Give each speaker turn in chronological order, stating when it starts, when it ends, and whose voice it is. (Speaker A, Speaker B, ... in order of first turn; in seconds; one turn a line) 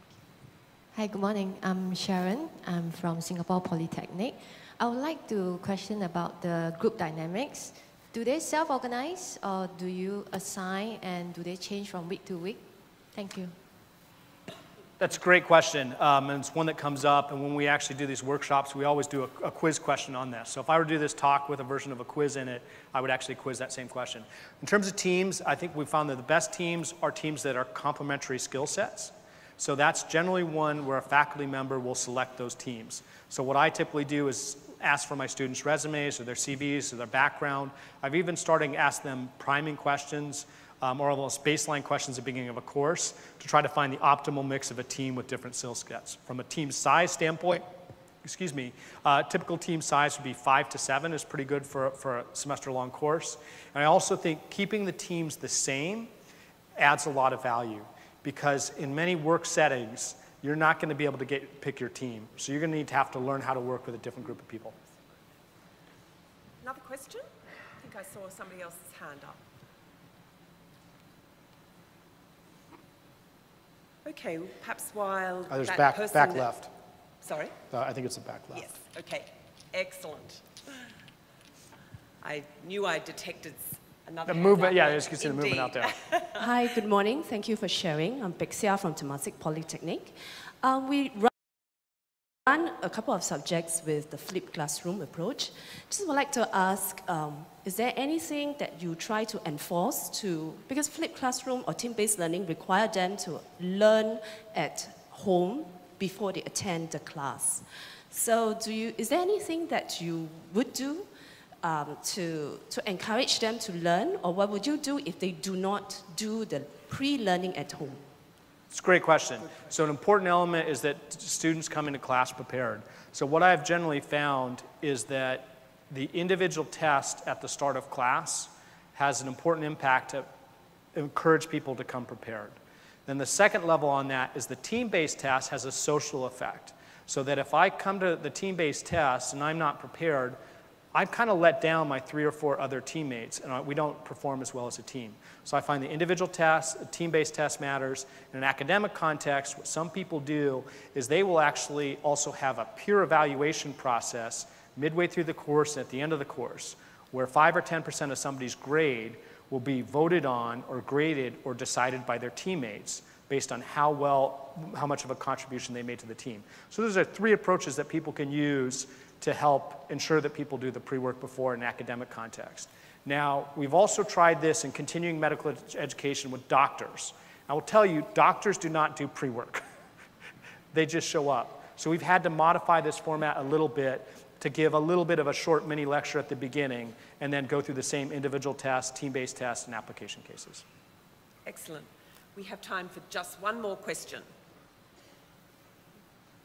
Speaker A: 0.9-13.5
Speaker B: 15.0-47.6
Speaker B: 48.2-56.1
Speaker B: 56.8-64.8
Speaker C: 66.6-67.2
Speaker C: 67.8-69.4
Speaker C: 74.0-76.6
Speaker B: 75.5-76.7
Speaker C: 77.2-77.6
Speaker B: 77.7-78.7
Speaker C: 78.5-80.9
Speaker C: 82.2-86.4
Speaker B: 84.3-86.0
Speaker D: 86.4-91.3
Speaker D: 92.5-111.1
Speaker D: 111.6-118.0
Speaker B: 118.7-130.3
Speaker B: 130.9-132.6
Speaker B: 133.1-140.4
Speaker B: 140.9-179.6
Speaker B: 180.7-190.7
Speaker C: 191.5-194.3